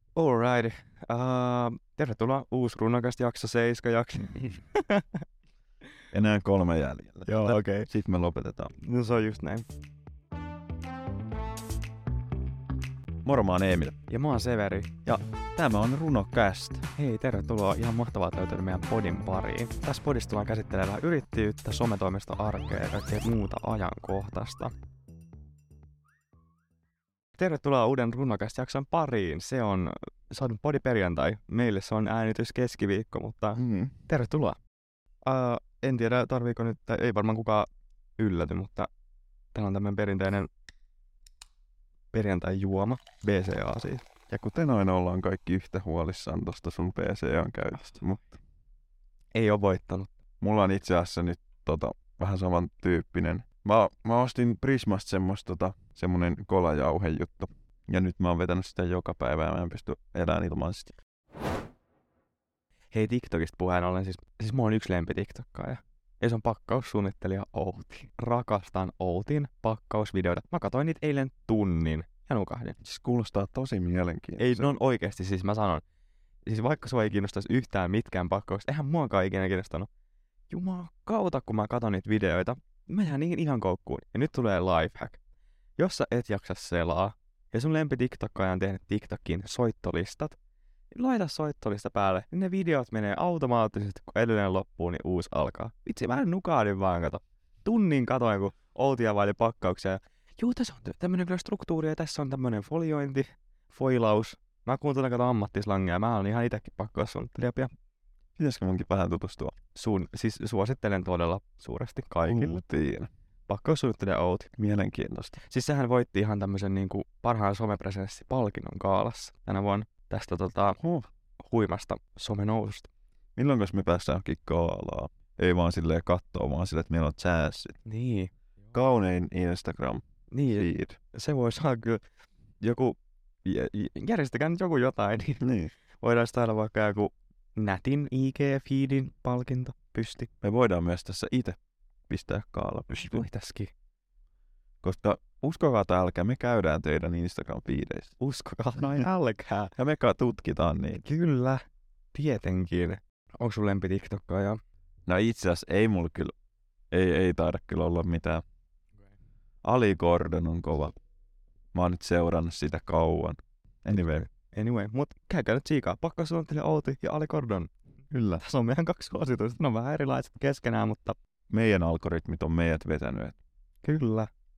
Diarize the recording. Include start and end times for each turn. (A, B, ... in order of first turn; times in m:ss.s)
0:00.2-0:05.2 A
0:06.1-0:08.7 B
0:07.3-0:07.9 A
0:08.8-0:09.7 A
0:13.2-0:14.0 B
0:14.1-0:15.0 A
0:15.1-0:16.9 B
0:16.9-0:24.7 A
0:27.4-0:34.6 A
0:33.6-0:34.0 B
0:35.2-0:38.9 A
0:39.5-0:40.5 A
0:42.1-0:44.1 A
0:44.3-0:48.4 B
0:49.3-0:50.1 A
0:50.4-1:00.9 B
1:02.9-1:12.8 A
1:12.8-1:14.7 B
1:14.4-1:15.8 A
1:16.5-1:19.9 A
1:20.5-1:25.2 A
1:25.8-1:30.4 A
1:30.9-1:47.7 A
1:48.4-1:49.5 B
1:49.8-1:52.6 A
1:52.2-1:53.1 B
1:53.5-1:54.5 A
1:54.6-1:55.4 B
1:55.4-2:00.8 A
2:00.8-2:01.1 B
2:01.4-2:02.9 A
2:03.4-2:07.8 B
2:07.8-2:08.3 A
2:08.7-2:11.0 B
2:10.3-2:12.0 A
2:12.6-2:15.4 A
2:15.4-2:15.7 B
2:16.0-2:20.3 A
2:20.4-2:21.6 B
2:22.1-2:23.1 B
2:22.9-2:23.7 A
2:24.8-2:28.1 B
2:28.2-2:29.7 A
2:28.8-2:29.1 B
2:29.8-2:31.0 B
2:31.0-2:31.6 A
2:32.1-2:34.6 A
2:35.1-2:36.3 B
2:36.9-2:38.4 B
2:39.6-2:40.9 B
2:41.7-2:44.3 B
2:43.9-2:47.7 A
2:48.1-2:48.4 B
2:48.4-2:51.2 A
2:51.5-2:53.4 B
2:53.8-2:54.3 A